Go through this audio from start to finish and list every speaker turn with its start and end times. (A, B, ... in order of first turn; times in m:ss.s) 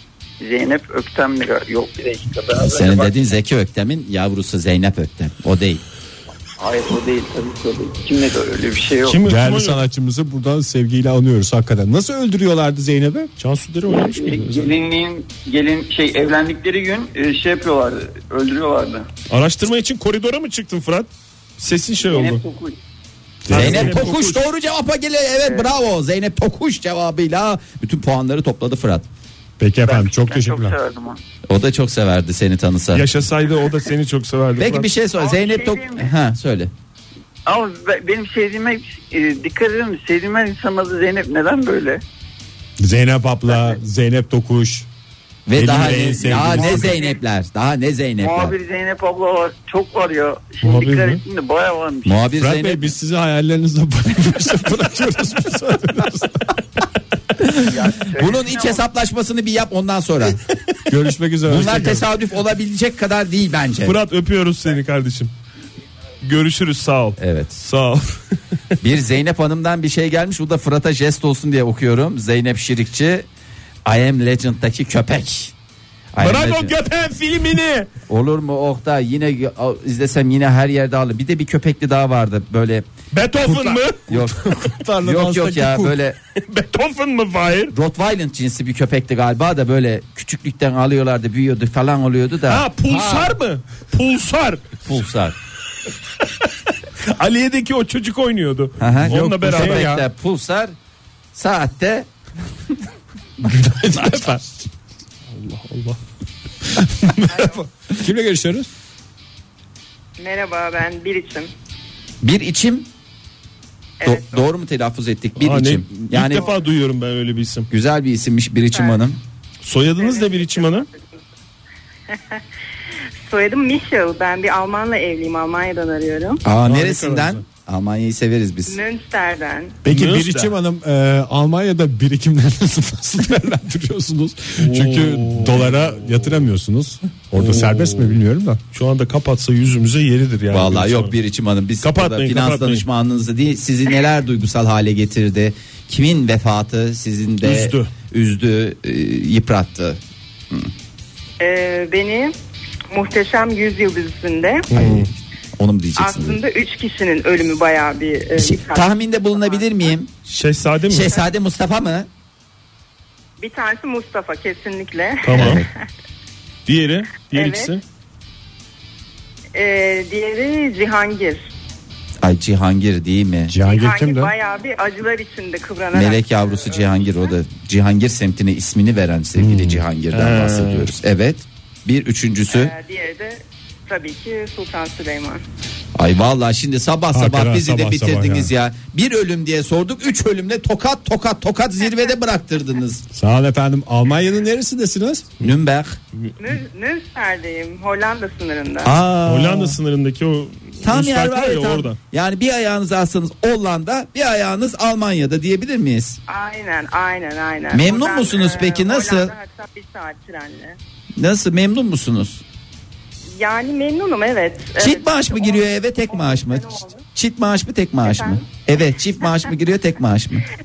0:00.4-0:03.1 A
0:02.6-0:05.8 B
0:06.6-0:09.2 A
0:09.1-0:09.8 C
0:09.2-0:13.3 D
0:13.4-0:14.7 C
0:13.9-0:19.1 A
0:19.3-0:22.4 C
0:22.0-0:22.8 A
0:23.4-0:24.0 D
0:23.5-0:24.4 C
0:23.5-0:29.1 B
0:29.6-0:30.8 D
0:29.8-0:31.2 A
0:31.5-0:33.0 B
0:32.9-0:34.9 C
0:34.6-0:36.7 B
0:35.2-0:36.1 A
0:37.5-0:42.0 A
0:42.8-0:44.9 D
0:43.5-0:43.8 A
0:45.5-0:48.6 B
0:45.5-0:47.0 D
0:46.2-0:47.2 A
0:48.2-0:52.3 A
0:50.6-0:51.2 C
0:52.0-0:52.9 B
0:52.4-0:56.6 D
0:57.4-1:00.4 B
0:57.7-0:58.8 A
1:00.9-1:02.1 D
1:01.5-1:04.0 B
1:03.8-1:05.3 C
1:06.2-1:08.3 C
1:07.2-1:07.6 B
1:08.8-1:13.3 B
1:13.8-1:15.5 B
1:16.1-1:16.7 B
1:16.2-1:17.9 C
1:18.1-1:22.8 B
1:23.1-1:24.1 C
1:23.4-1:26.0 D
1:24.1-1:26.2 B
1:26.5-1:27.7 C
1:27.7-1:32.7 B
1:32.5-1:34.6 C
1:32.9-1:33.4 D
1:34.8-1:35.4 B
1:37.0-1:39.9 C
1:38.8-1:40.8 B
1:39.1-1:40.1 D
1:41.3-1:42.1 B
1:43.4-1:44.7 D
1:45.3-1:46.0 C
1:46.7-1:48.7 D
1:47.3-1:47.6 E
1:50.2-1:51.5 E
1:52.2-1:52.9 B
1:54.0-1:54.5 E
1:54.0-1:56.5 B
1:55.4-1:57.7 C
1:57.7-1:59.2 B
1:58.7-1:59.0 E
1:59.6-2:00.9 C
2:00.0-2:00.9 E
2:02.1-2:02.4 E
2:03.3-2:06.4 E
2:06.4-2:08.8 B
2:06.6-2:07.4 C
2:08.7-2:09.8 E
2:09.8-2:18.6 D
2:09.9-2:10.5 C
2:14.6-2:15.9 C
2:17.4-2:18.2 C
2:18.7-2:21.2 C
2:20.5-2:30.0 B
2:21.8-2:22.8 C
2:27.4-2:27.9 C
2:31.4-2:32.3 E
2:32.9-2:34.7 E
2:34.7-2:35.1 C
2:34.7-2:36.4 B
2:36.0-2:39.9 E
2:38.4-2:40.1 B
2:40.3-2:41.1 C
2:40.9-2:42.1 B
2:43.4-2:45.9 E
2:45.2-2:45.6 C
2:45.3-2:45.7 B
2:46.7-2:47.8 C
2:47.3-2:47.8 E
2:49.5-2:51.5 E
2:52.2-2:53.6 B
2:53.5-2:54.3 D
2:53.6-2:57.3 E
2:55.9-3:02.7 B
2:59.4-2:59.8 D
3:00.1-3:00.9 C
3:02.5-3:05.4 E
3:06.0-3:13.0 B
3:07.1-3:08.5 D
3:11.8-3:12.2 E
3:13.1-3:15.3 D
3:15.4-3:16.0 B
3:16.4-3:18.9 E
3:18.8-3:19.7 B
3:19.2-3:22.0 C
3:20.8-3:26.2 B
3:26.3-3:30.8 E
3:27.7-3:29.3 B
3:31.2-3:32.4 B
3:33.4-3:37.0 E
3:34.8-3:40.4 B
3:38.0-3:38.5 E